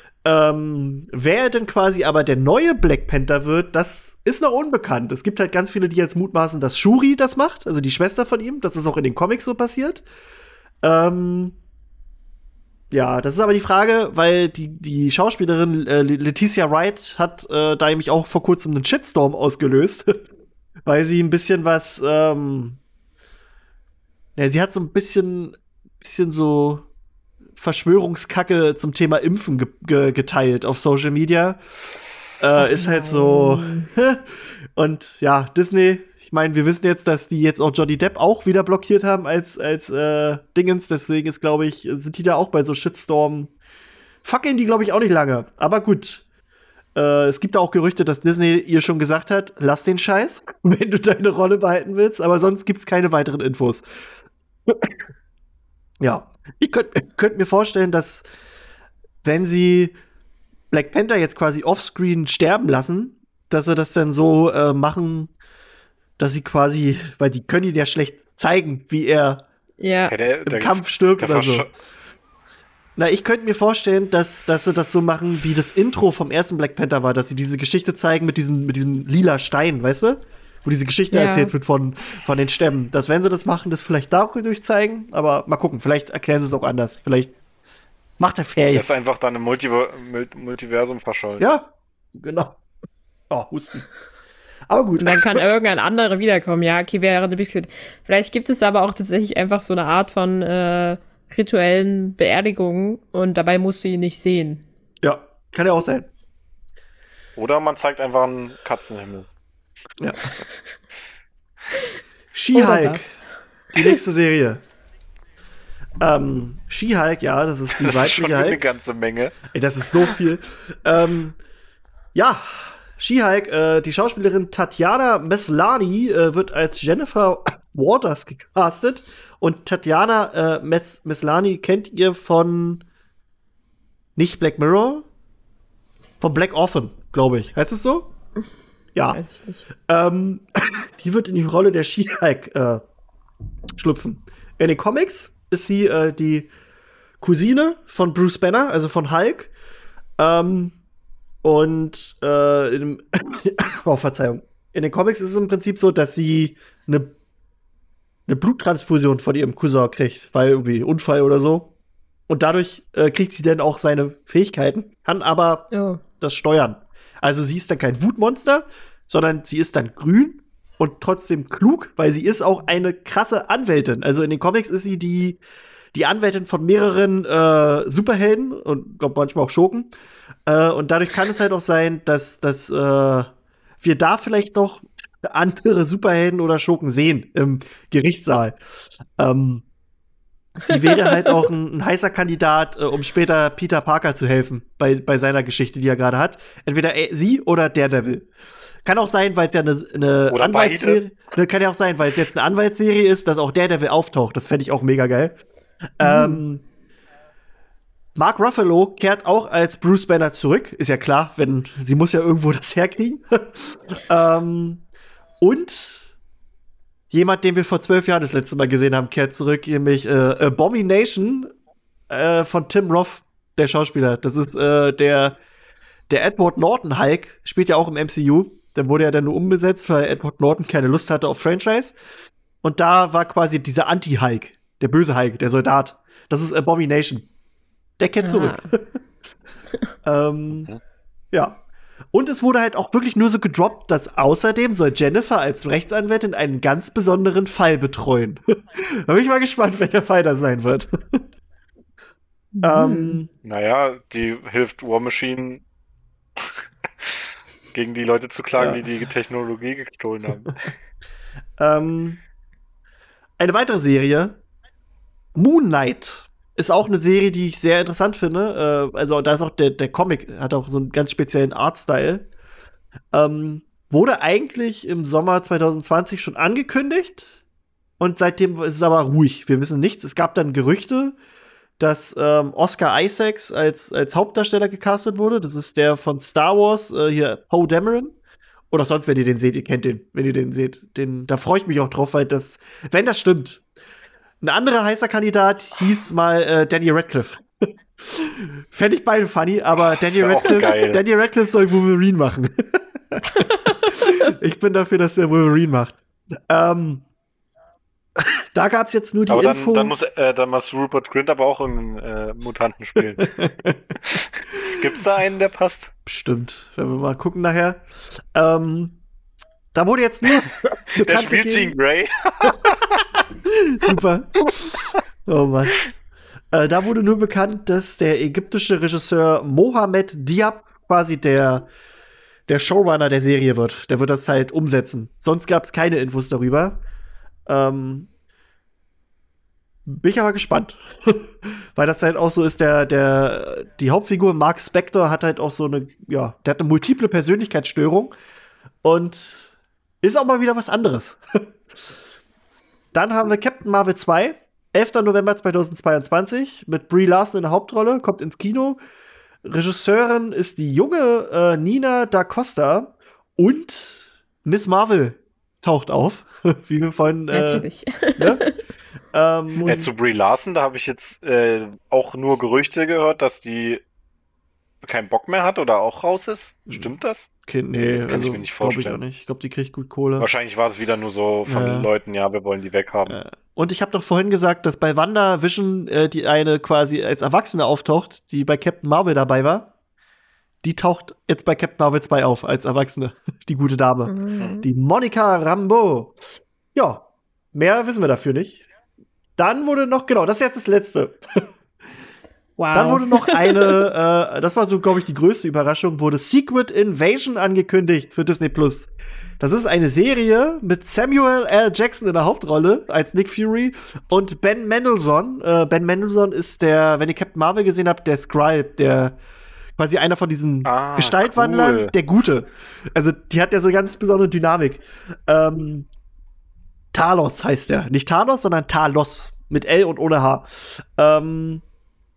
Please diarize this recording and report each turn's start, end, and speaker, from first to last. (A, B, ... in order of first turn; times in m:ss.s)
0:00.2-0:10.0 A
0:10.8-0:11.6 A
0:12.9-0:20.2 A
0:20.9-0:22.8 A
0:24.4-0:26.9 A
0:27.6-0:31.6 A
0:32.4-0:43.5 A
0:32.6-0:33.9 B
0:44.2-0:46.2 A
0:47.0-0:53.8 A
0:54.7-0:55.0 A
0:56.0-0:58.2 A
0:59.2-1:00.0 A
1:00.7-1:05.3 A
1:06.2-1:09.4 A
1:09.8-1:10.1 B
1:10.1-1:11.7 C
1:10.5-1:11.7 A
1:13.0-1:27.4 A
1:21.1-1:21.5 B
1:28.2-1:28.9 A
1:28.7-1:31.5 C
1:31.4-1:32.6 A
1:33.3-1:33.9 A
1:34.7-1:35.4 A
1:35.0-1:44.6 B
1:45.0-1:46.1 A
1:47.4-1:49.3 C
1:50.0-1:50.3 A
1:52.3-1:53.1 A
1:52.5-1:53.1 B
1:53.7-1:54.6 A
1:56.0-1:58.6 A
1:57.7-1:59.4 C
1:59.5-2:01.4 A
2:02.2-2:12.8 A
2:14.2-2:15.1 A
2:16.2-2:18.1 A
2:19.1-2:19.6 B
2:19.8-2:22.8 A
2:23.8-2:26.5 A
2:27.2-2:29.5 A
2:30.2-2:30.8 A
2:31.4-2:37.1 A
2:38.3-2:41.7 A
2:42.3-2:55.4 A
2:45.7-2:46.0 B
2:55.9-2:59.9 A
3:00.5-3:03.3 A
3:03.8-3:08.6 A
3:09.2-3:09.6 A
3:10.6-3:18.3 A
3:10.7-3:11.2 B
3:18.8-3:25.4 A
3:20.3-3:21.0 C
3:26.0-3:26.6 A
3:26.0-3:26.4 B
3:28.2-3:34.8 A
3:35.4-3:36.1 A
3:37.1-3:41.5 A
3:42.1-3:45.4 A
3:46.1-3:52.0 A
3:52.6-3:57.3 A
3:58.0-3:58.9 A
3:58.2-3:58.6 B
4:00.0-4:00.7 A
4:01.3-4:01.6 A
4:02.1-4:11.2 A
4:12.5-4:13.2 B
4:12.6-4:13.3 A
4:13.4-4:15.6 C
4:16.4-4:20.5 C
4:18.6-4:18.8 A
4:21.6-4:22.2 A
4:23.4-4:24.4 A
4:25.4-4:32.3 A
4:33.1-4:37.4 A
4:38.0-4:41.2 A
4:41.8-4:48.2 A
4:48.7-4:53.6 A
4:54.4-4:57.4 A
4:58.0-5:06.0 A
4:59.8-5:01.0 C
5:06.5-5:07.0 A
5:08.2-5:10.0 A
5:09.3-5:13.4 C
5:13.2-5:14.0 A
5:14.0-5:15.9 C
5:16.1-5:19.0 A
5:19.7-5:21.8 A
5:21.0-5:23.0 C
5:23.4-5:25.9 A
5:26.5-5:31.7 A
5:32.5-5:36.8 A
5:37.5-5:38.1 A
5:39.8-5:48.1 A
5:48.8-5:49.5 A
5:50.0-5:51.4 A
5:52.9-5:58.8 A
5:59.4-6:08.4 A
6:07.3-6:08.5 B
6:09.1-6:09.8 A
6:09.6-6:09.9 B
6:09.6-6:13.8 C
6:14.8-6:17.3 C
6:17.4-6:20.3 A
6:17.8-6:19.0 C
6:20.2-6:23.2 C
6:21.5-6:21.9 A
6:23.1-6:29.7 A
6:30.6-6:36.2 A
6:34.1-6:34.7 B
6:36.8-6:38.6 A
6:39.4-6:41.4 A
6:42.6-6:43.9 B
6:42.7-6:59.2 A
6:59.8-7:05.9 A
7:00.6-7:01.9 C
7:06.9-7:11.6 A